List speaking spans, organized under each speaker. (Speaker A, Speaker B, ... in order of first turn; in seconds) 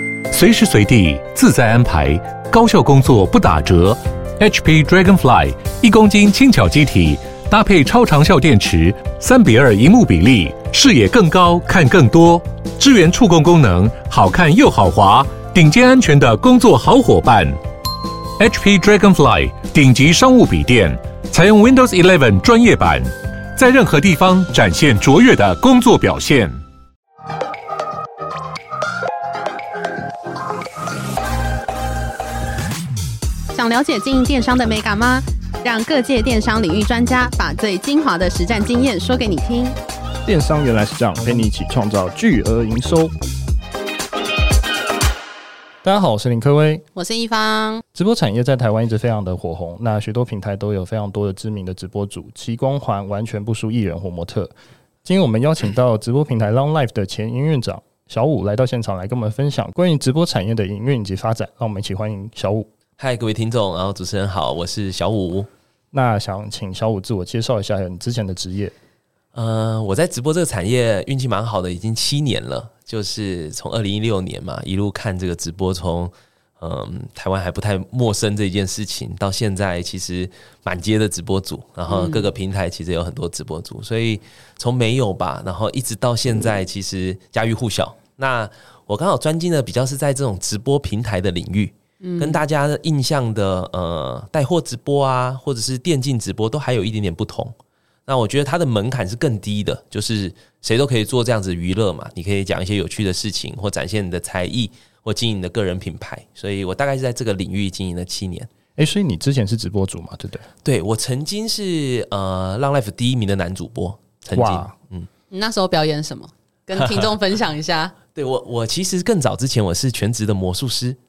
Speaker A: 0.3-17.6, 18.4-26.6
Speaker B: 33.5-39.8, 46.9-47.8, 81.9-82.3, 92.0-92.4, 115.3-118.0
Speaker C: 40.2-43.1, 45.8-46.8, 47.9-54.5, 55.0-62.7, 65.9-68.7, 108.8-110.5, 114.3-114.7
Speaker D: 63.0-65.5, 69.3-97.5, 98.1-108.5, 110.6-115.1, 116.8-117.1, 118.1-121.0